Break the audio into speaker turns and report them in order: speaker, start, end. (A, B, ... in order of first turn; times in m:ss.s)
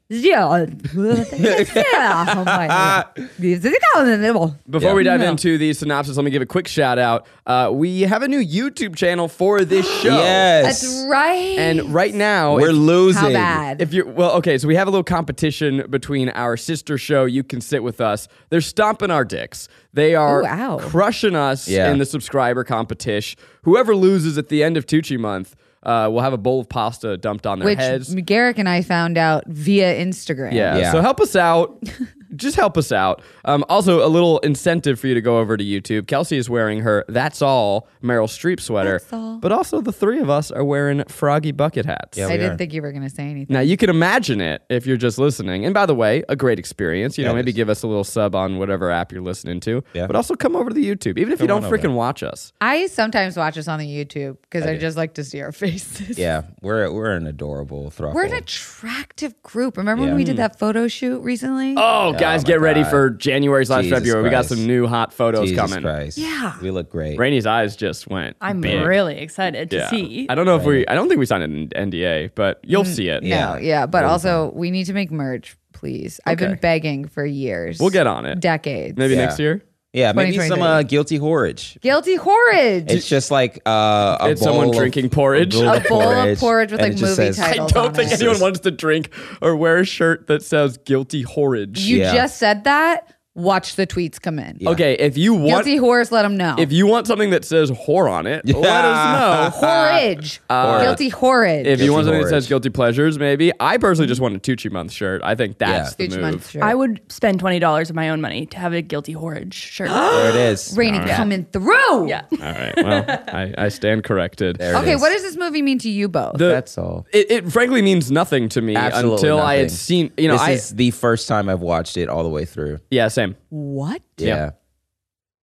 0:00.1-0:05.4 A
0:01.3-0:03.2 B
0:04.7-0:10.5 C
0:10.0-0:11.0 B
0:10.6-0:11.9 A
0:11.6-0:12.8 C
0:12.5-0:13.6 B
0:13.1-0:13.9 A
0:13.8-0:28.1 C
0:20.3-0:20.9 A
0:21.6-0:22.0 B
0:27.6-0:30.8 A
0:30.5-0:42.3 C
0:30.7-0:31.0 B
0:38.8-0:39.4 A
0:42.2-0:42.6 B
0:42.3-0:43.7 A
0:43.5-0:52.5 C
0:47.2-0:47.5 B
0:51.4-0:51.9 B
0:52.6-0:56.3 A
0:56.2-0:58.4 B
0:58.1-1:01.8 A
1:00.0-1:00.2 B
1:00.1-1:00.5 C
1:01.8-1:05.9 C
1:02.1-1:03.0 B
1:03.7-1:04.6 B
1:05.3-1:07.2 B
1:06.2-1:06.6 A
1:07.2-1:08.9 C
1:08.4-1:10.3 D
1:08.6-1:08.9 B
1:09.7-1:13.2 C
1:10.5-1:10.8 B
1:12.7-1:19.1 A
1:13.2-1:14.4 B
1:16.2-1:16.6 C
1:17.8-1:18.4 C
1:18.9-1:19.6 C
1:19.1-1:19.4 B
1:19.9-1:21.8 B
1:20.1-1:20.8 A
1:21.8-1:23.1 A
1:22.9-1:28.4 B
1:24.2-1:26.1 C
1:25.6-1:28.2 A
1:27.4-1:32.0 C
1:31.8-1:34.6 A
1:31.9-1:32.2 B
1:34.6-1:35.7 C
1:35.4-1:36.7 A
1:36.6-1:41.0 C
1:38.4-1:39.6 B
1:39.5-1:42.0 A
1:40.6-1:41.0 B
1:41.6-1:46.5 C
1:41.7-1:42.5 B
1:45.6-1:45.9 B
1:46.0-1:46.8 A
1:46.6-1:50.1 D
1:49.8-1:51.3 C
1:50.1-1:50.8 B
1:50.7-1:52.2 A
1:51.0-1:51.3 D
1:52.0-1:53.2 D
1:52.4-1:54.9 C
1:54.6-1:55.1 B
1:54.7-1:56.4 A
1:56.3-2:00.7 C
1:56.4-1:57.0 B
1:58.7-2:02.8 B
2:02.9-2:03.4 C
2:03.5-2:04.1 A
2:04.2-2:04.5 B